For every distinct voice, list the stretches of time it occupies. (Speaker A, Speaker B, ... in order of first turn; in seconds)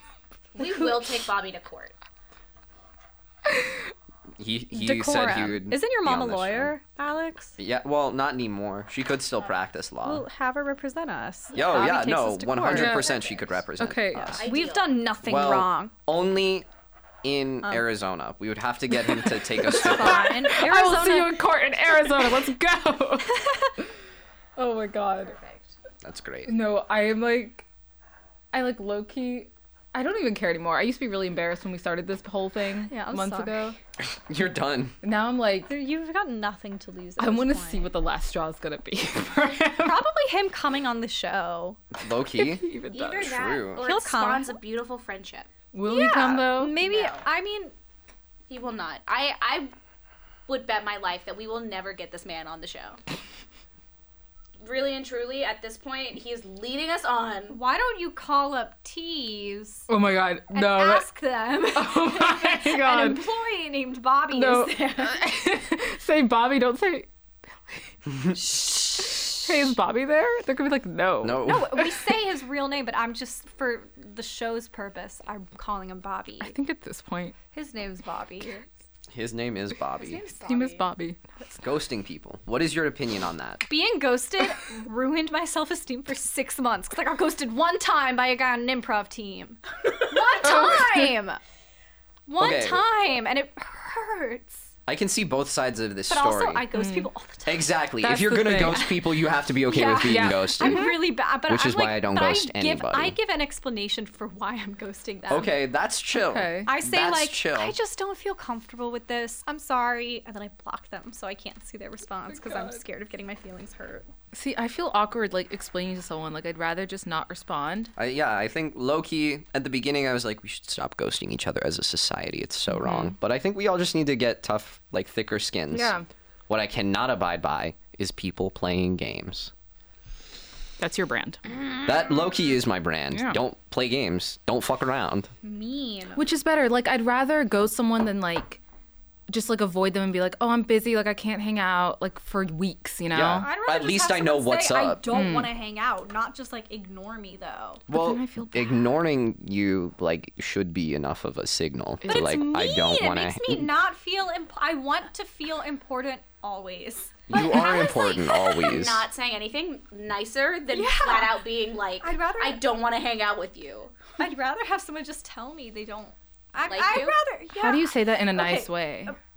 Speaker A: 0.5-1.9, 13.2-13.5, 14.2-15.1, 25.2-25.7, 42.9-45.5, 46.8-47.2, 48.5-49.7, 50.5-53.0, 54.6-57.6, 135.4-136.2, 157.3-164.0, 166.6-167.2
Speaker B: 4.4-6.7, 7.6-10.2, 11.5-14.4, 15.2-16.7, 17.2-20.5, 26.0-26.6, 34.3-35.0, 42.0-43.8, 71.2-71.9, 79.1-80.2, 81.6-83.6, 92.4-92.8, 94.9-96.7, 97.5-100.9, 101.5-103.2, 105.3-107.8, 118.0-125.9, 126.5-129.5, 131.8-135.3, 143.1-145.3, 147.9-153.7, 157.3-159.0
Speaker C: 4.7-7.5, 10.0-13.1, 14.4-15.9, 19.6-21.4, 32.9-33.8, 35.7-38.0, 39.8-41.8, 43.8-44.6, 45.8-47.7, 57.5-59.9, 60.5-65.2, 68.3-69.7, 71.4-76.5, 77.5-78.7, 80.0-81.0, 83.7-91.4, 92.3-94.7, 96.1-97.8, 99.6-105.5, 106.7-114.1, 143.3-147.8, 152.0-158.7, 160.7-162.6, 164.2-169.1
Speaker D: 12.7-13.2, 13.8-14.4, 19.1-23.5, 24.6-25.3, 26.4-27.6, 28.5-33.8, 35.0-35.7, 37.2-40.0, 42.4-43.3, 45.7-46.8, 59.9-61.1, 61.7-63.2, 64.3-67.1, 69.0-71.7, 76.4-77.4, 80.4-81.2, 90.4-91.1, 96.7-97.1, 98.0-98.8, 100.0-101.0, 106.2-106.7, 112.3-112.8, 114.3-117.9, 122.7-123.1, 125.7-126.0, 130.8-131.4, 133.1-133.4, 136.1-138.6, 139.3-143.5, 145.1-145.5, 147.9-148.9, 152.1-152.3, 167.5-169.2